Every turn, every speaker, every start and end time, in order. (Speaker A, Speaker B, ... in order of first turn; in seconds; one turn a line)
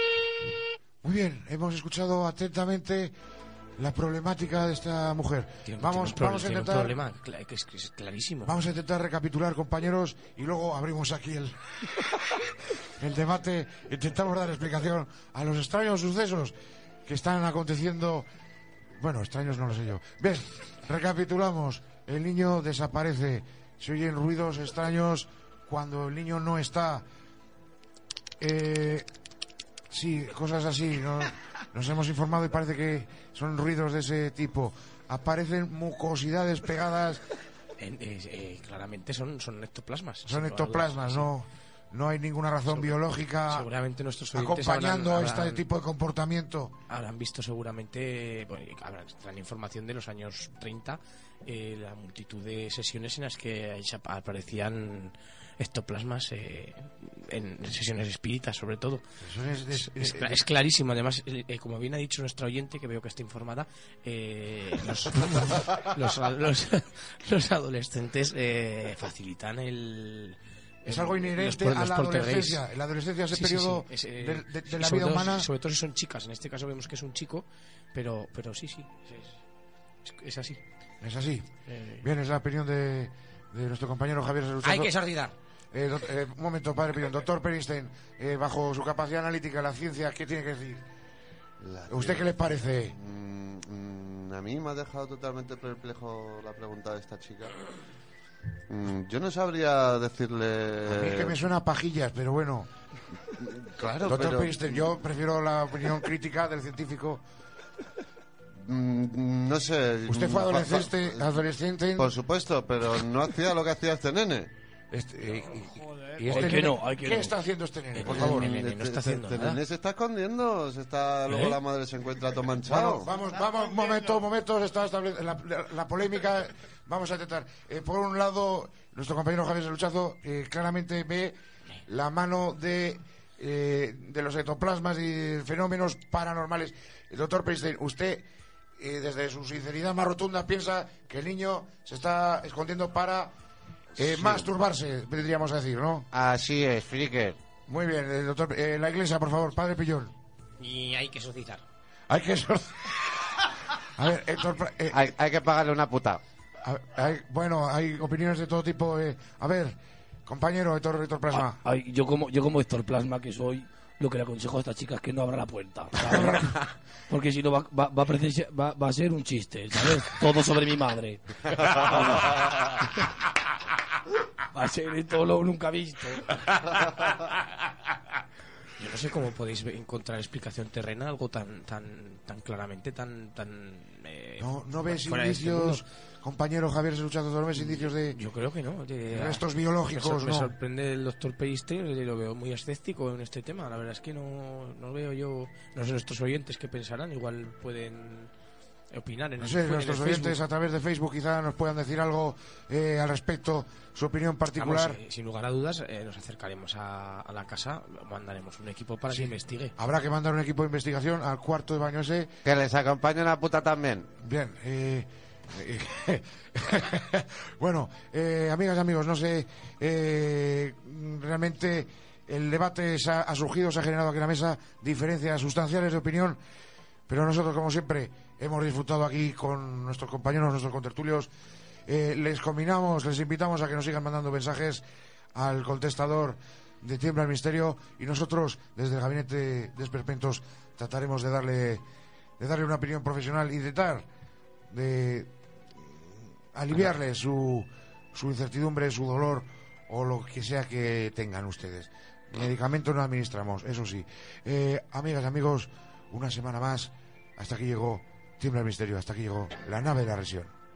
Speaker A: 1.0-3.1
Speaker A: 3.8-7.0
Speaker B: 5.7-8.6
Speaker A: 8.4-11.6
Speaker A: 13.0-16.5
Speaker A: 17.1-18.2
Speaker A: 19.0-27.1
Speaker A: 28.4-29.1
Speaker A: 29.9-37.2
Speaker B: 37.8-41.3
Speaker A: 40.2-43.7
Speaker B: 42.7-45.6
Speaker A: 44.3-46.7
Speaker B: 46.9-59.0
Speaker A: 59.2-60.4
Speaker B: 59.7-72.6
Speaker A: 70.9-75.5
Speaker B: 73.3-79.4
Speaker B: 80.0-80.6
Speaker A: 81.0-81.5
Speaker B: 81.7-82.0
Speaker A: 82.0-84.9
Speaker B: 84.6-85.3
Speaker A: 85.7-90.8
Speaker C: 91.6-97.6
Speaker A: 91.9-92.9
Speaker C: 98.7-101.4
Speaker A: 100.9-102.7
Speaker C: 103.4-104.9
Speaker A: 104.0-107.2
Speaker C: 108.6-111.4
Speaker A: 110.1-112.1
Speaker C: 112.0-114.5
Speaker A: 114.9-118.5
Speaker D: 116.2-117.3
Speaker B: 117.9-119.6
Speaker C: 118.0-123.1
Speaker D: 121.3-121.6
Speaker A: 122.7-131.3
Speaker A: 131.8-138.2
Speaker A: 138.8-143.3
Speaker A: 143.9-146.1
Speaker E: 146.1-147.4
Speaker A: 147.7-150.1
Speaker B: 150.6-151.6
Speaker A: 152.1-155.1
Speaker E: 154.9-156.2
Speaker A: 156.6-159.7
Speaker A: 160.2-161.6
Speaker D: 161.4-173.1
Speaker A: 166.0-166.5
Speaker D: 174.5-176.4
Speaker B: 178.8-185.8
Speaker A: 184.4-188.2
Speaker B: 187.6-198.3
Speaker A: 189.1-190.5
Speaker B: 198.9-200.4
Speaker A: 199.4-205.0
Speaker B: 204.5-209.7
Speaker A: 209.1-212.3
Speaker E: 212.4-214.1
Speaker A: 214.2-226.4
Speaker A: 227.1-231.3
Speaker A: 231.9-234.8
Speaker A: 235.3-241.8
Speaker A: 242.4-244.1
Speaker A: 244.7-260.5